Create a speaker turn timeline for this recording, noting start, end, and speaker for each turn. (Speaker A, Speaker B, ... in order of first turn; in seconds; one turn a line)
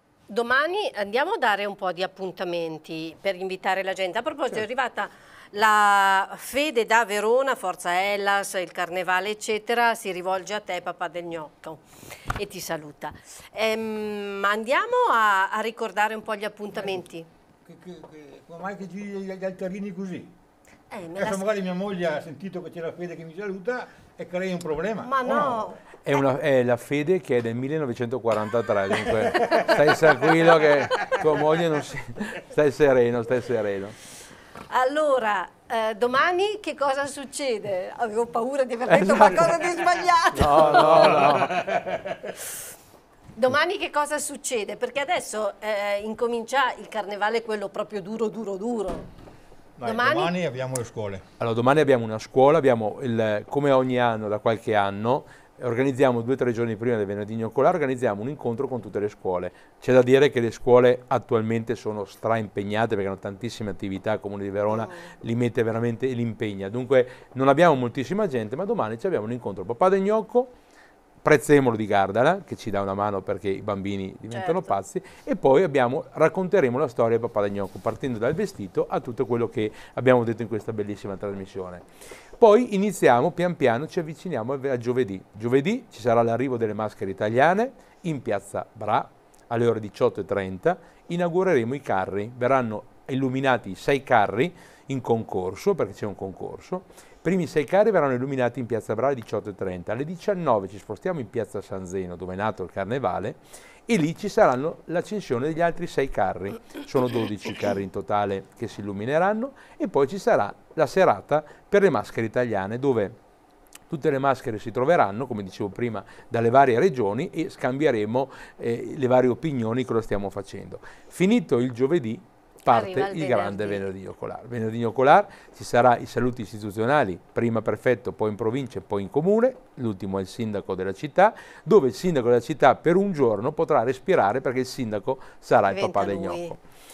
Speaker A: 0.3-11.8
Speaker A: 12.3-17.3
Speaker B: 17.6-20.3
Speaker A: 20.9-21.5
Speaker B: 21.2-25.7
Speaker A: 25.0-25.8
Speaker C: 26.0-34.0
Speaker B: 29.3-29.8
Speaker A: 34.7-41.2
Speaker C: 38.9-39.6
Speaker C: 40.3-41.6
Speaker B: 40.4-42.3
Speaker A: 43.4-49.0
Speaker B: 49.8-51.2
Speaker A: 49.8-50.3
Speaker C: 51.4-70.5
Speaker A: 64.7-65.1
Speaker C: 71.2-81.8
Speaker A: 74.3-74.7
Speaker C: 82.4-113.2
Speaker C: 113.9-136.6
Speaker A: 122.7-123.8
Speaker A: 135.7-136.6